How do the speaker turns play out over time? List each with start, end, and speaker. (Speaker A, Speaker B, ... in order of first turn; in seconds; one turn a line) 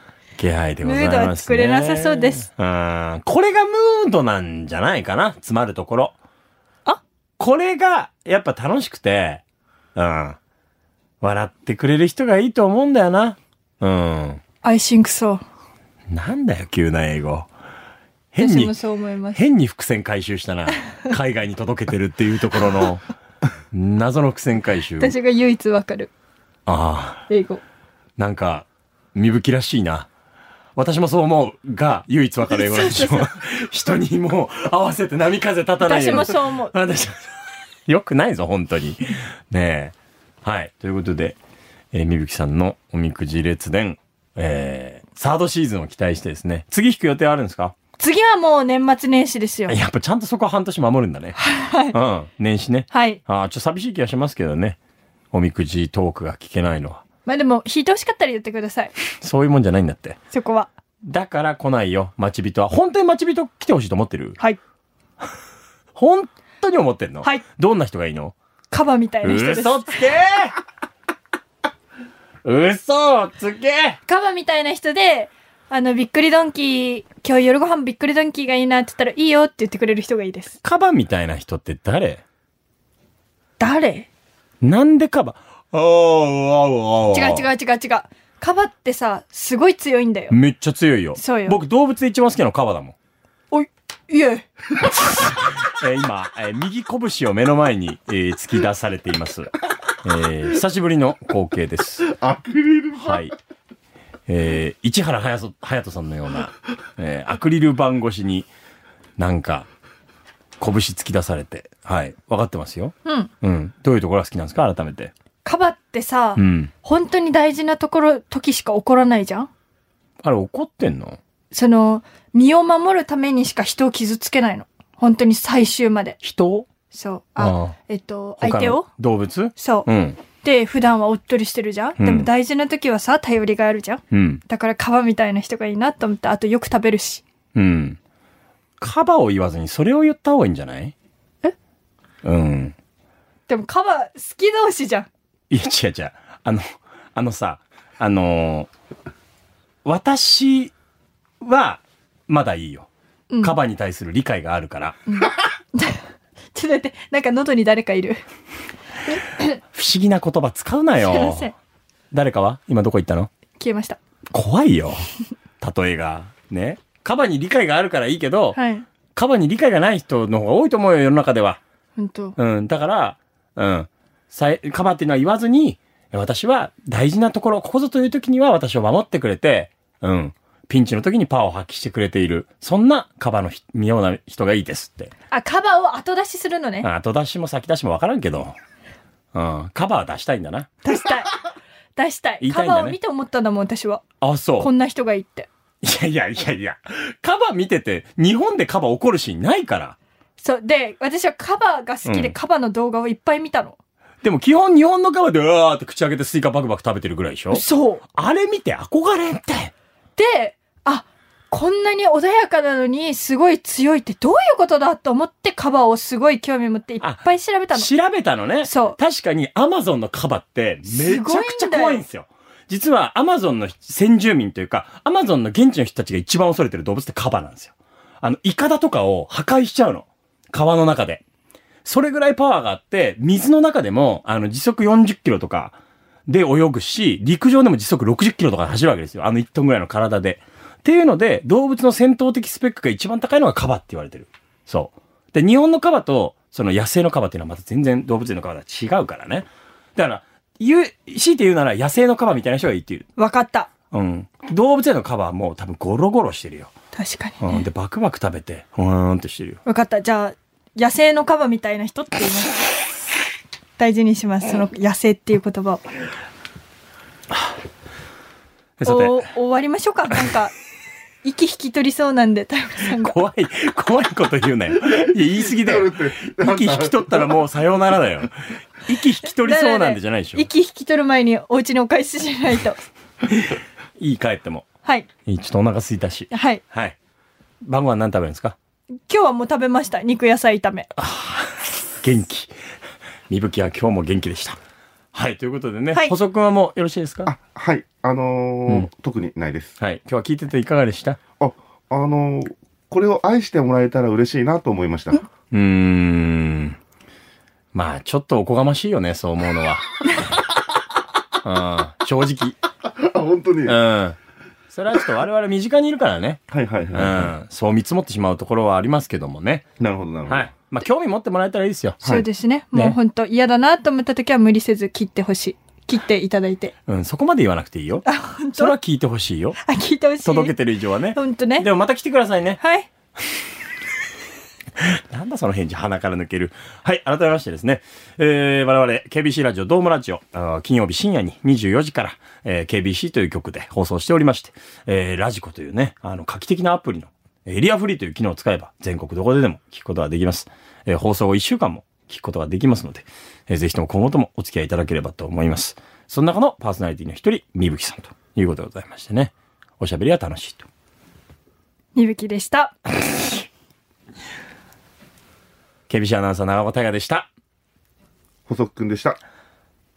Speaker A: 0.4-6.1
Speaker B: 0.8-2.5
Speaker A: 7.4-9.4
Speaker A: 9.9-10.4
Speaker A: 11.2-14.4
Speaker B: 14.6-15.4
Speaker A: 16.1-17.5
Speaker A: 18.3-18.7
Speaker B: 18.4-19.4
Speaker A: 19.3-23.0
Speaker A: 23.7-25.1
Speaker B: 25.0-26.1
Speaker A: 26.7-27.2
Speaker B: 27.3-27.6
Speaker A: 28.2-30.1
Speaker A: 30.8-41.4
Speaker B: 32.5-33.3
Speaker B: 35.8-36.7
Speaker A: 41.9-47.7
Speaker B: 48.0-49.8
Speaker A: 49.7-51.4
Speaker B: 51.4-52.0
Speaker A: 51.9-54.8
Speaker B: 52.9-53.2
Speaker A: 55.3-57.0
Speaker B: 57.2-58.9
Speaker A: 59.1-60.2
Speaker B: 60.3-60.7
Speaker A: 61.0-64.4
Speaker A: 65.9-68.3
Speaker B: 68.7-70.0
Speaker A: 69.2-70.5
Speaker A: 72.4-74.0
Speaker B: 74.1-80.6
Speaker A: 80.6-82.2
Speaker B: 83.6-84.1
Speaker A: 84.6-87.5
Speaker B: 87.1-90.3
Speaker A: 90.3-92.9
Speaker B: 91.2-91.6
Speaker B: 93.5-94.5
Speaker A: 95.0-99.5
Speaker A: 100.0-102.1
Speaker C: 102.1-103.2
Speaker A: 103.0-103.3
Speaker A: 104.3-108.5
Speaker A: 109.2-109.7
Speaker A: 110.6-115.1
Speaker B: 113.0-113.3
Speaker B: 115.4-119.5
Speaker A: 116.3-116.7
Speaker A: 120.2-121.2
Speaker B: 121.5-126.2
Speaker A: 126.2-126.7
Speaker B: 126.9-128.8
Speaker A: 127.4-127.7
Speaker A: 128.4-130.2
Speaker B: 129.6-137.2
Speaker A: 132.0-132.3
Speaker A: 134.1-134.4
Speaker A: 137.5-138.0
Speaker A: 138.8-140.9
Speaker A: 142.2-142.7
Speaker B: 143.5-145.1
Speaker A: 145.5-148.7
Speaker A: 149.8-150.7
Speaker A: 151.4-152.9
Speaker B: 153.3-153.6
Speaker A: 153.4-155.0
Speaker B: 155.1-158.2
Speaker B: 159.1-159.4
Speaker A: 159.7-161.5
Speaker B: 161.0-161.5
Speaker A: 162.1-163.3
Speaker B: 163.6-164.0
Speaker A: 164.3-165.1
Speaker A: 165.6-168.6
Speaker B: 168.5-168.9
Speaker A: 169.1-171.6
Speaker B: 171.9-172.3
Speaker A: 172.4-185.1
Speaker B: 185.3-186.9
Speaker A: 186.8-188.5
Speaker A: 189.3-190.7
Speaker B: 190.8-191.3
Speaker B: 191.9-194.0
Speaker A: 192.4-193.0
Speaker A: 194.2-194.7
Speaker B: 194.6-195.5
Speaker A: 195.8-199.9
Speaker B: 200.4-203.8
Speaker A: 202.0-202.3
Speaker A: 204.2-209.7
Speaker B: 207.5-208.0
Speaker B: 210.2-217.9
Speaker A: 217.0-231.2
Speaker B: 218.6-219.0
Speaker B: 220.9-222.0
Speaker A: 231.8-235.7
Speaker A: 236.3-253.1
Speaker B: 253.2-253.7
Speaker A: 253.9-256.7
Speaker B: 256.9-257.6
Speaker A: 257.4-259.6
Speaker B: 259.6-262.8
Speaker B: 263.8-265.9
Speaker A: 268.8-269.2
Speaker B: 268.8-270.5
Speaker B: 271.2-273.2
Speaker A: 272.9-280.5
Speaker C: 275.1-277.4
Speaker B: 279.3-282.8
Speaker A: 283.3-284.6
Speaker A: 285.2-286.9
Speaker B: 286.3-286.6
Speaker A: 287.6-288.6
Speaker B: 289.1-290.9
Speaker A: 291.0-292.5
Speaker A: 293.3-294.6
Speaker A: 295.1-297.3
Speaker C: 297.2-299.7
Speaker A: 299.8-301.2
Speaker C: 301.4-305.2
Speaker A: 305.5-306.8
Speaker A: 307.7-310.2
Speaker A: 311.4-312.6
Speaker C: 312.9-313.8
Speaker A: 313.7-314.2
Speaker A: 314.7-316.4
Speaker C: 316.5-317.3
Speaker A: 316.9-319.6
Speaker C: 319.8-320.5
Speaker A: 320.3-322.0
Speaker B: 322.0-326.7
Speaker A: 326.9-329.6
Speaker B: 328.1-328.8
Speaker B: 329.6-330.5
Speaker A: 330.2-332.6
Speaker B: 331.1-331.7
Speaker B: 332.6-332.9
Speaker A: 334.8-360.7
Speaker B: 361.9-362.7
Speaker A: 365.9-367.3
Speaker C: 368.5-369.2